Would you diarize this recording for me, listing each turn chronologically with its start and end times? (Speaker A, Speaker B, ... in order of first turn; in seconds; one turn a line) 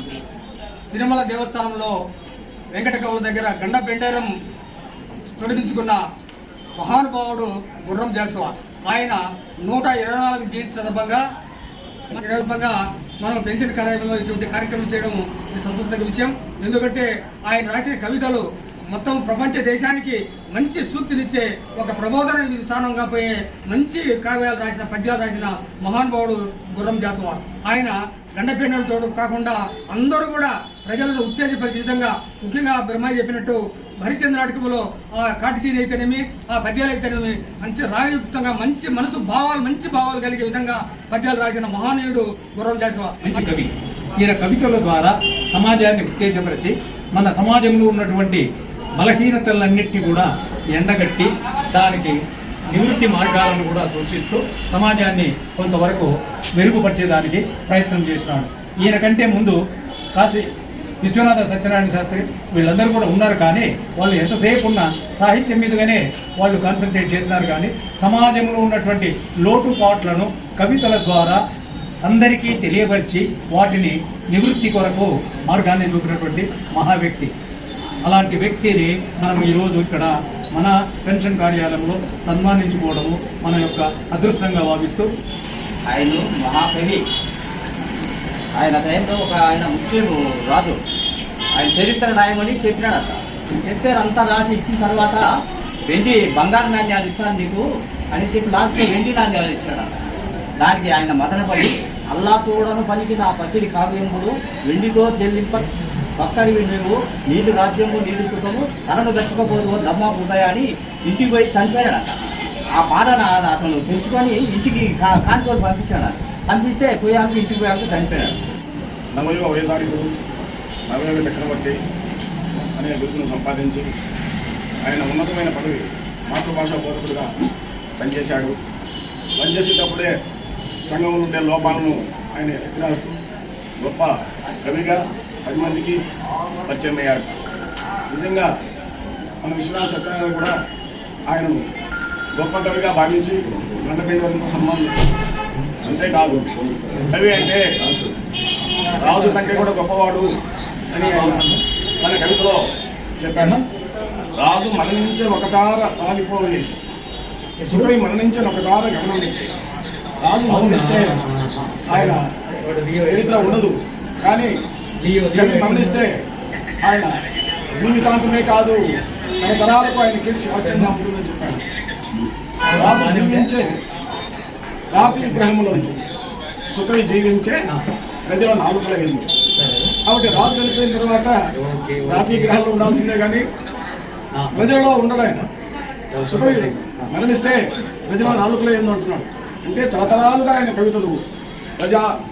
Speaker A: 0.9-1.9
Speaker A: 2.7-4.3
Speaker A: 5.4-6.0
Speaker A: 6.8-11.2
Speaker A: 12.1-43.4
Speaker B: 43.2-48.4
Speaker B: 49.0-59.6
Speaker B: 60.1-60.5
Speaker B: 61.0-71.4
Speaker B: 72.0-77.3
Speaker B: 78.0-85.1
Speaker C: 85.9-87.0
Speaker C: 88.5-90.8
Speaker C: 91.5-95.3
Speaker C: 95.9-100.0
Speaker C: 100.6-118.4
Speaker D: 119.1-120.1
Speaker D: 120.9-121.8
Speaker D: 122.6-123.9
Speaker D: 124.8-127.3
Speaker D: 128.0-128.6
Speaker D: 129.4-130.1
Speaker D: 130.8-133.2
Speaker D: 133.8-136.0
Speaker D: 136.6-137.3
Speaker D: 138.1-138.5
Speaker D: 139.4-140.5
Speaker D: 141.3-141.6
Speaker D: 142.3-145.1
Speaker D: 145.8-147.7
Speaker B: 146.9-147.3
Speaker B: 148.8-149.6
Speaker D: 149.0-150.3
Speaker D: 150.9-152.7
Speaker B: 151.0-151.6
Speaker D: 153.2-153.6
Speaker B: 153.3-153.6
Speaker D: 154.3-156.7
Speaker B: 157.6-157.9
Speaker D: 157.7-159.5
Speaker D: 160.2-161.2
Speaker B: 160.5-163.6
Speaker D: 161.9-162.2
Speaker D: 163.1-164.5
Speaker B: 165.0-166.1
Speaker D: 165.3-166.2
Speaker D: 166.8-167.1
Speaker D: 167.8-168.8
Speaker D: 169.4-171.6
Speaker B: 170.6-170.9
Speaker B: 172.6-173.5
Speaker D: 172.7-173.8
Speaker D: 174.9-175.9
Speaker B: 174.9-175.9
Speaker D: 176.7-177.6
Speaker D: 178.3-179.3
Speaker B: 179.5-179.9
Speaker D: 180.0-181.4
Speaker B: 181.5-182.5
Speaker D: 182.0-183.4
Speaker B: 184.3-184.7
Speaker D: 184.5-185.5
Speaker B: 186.1-187.1
Speaker D: 186.3-191.2
Speaker D: 191.8-192.1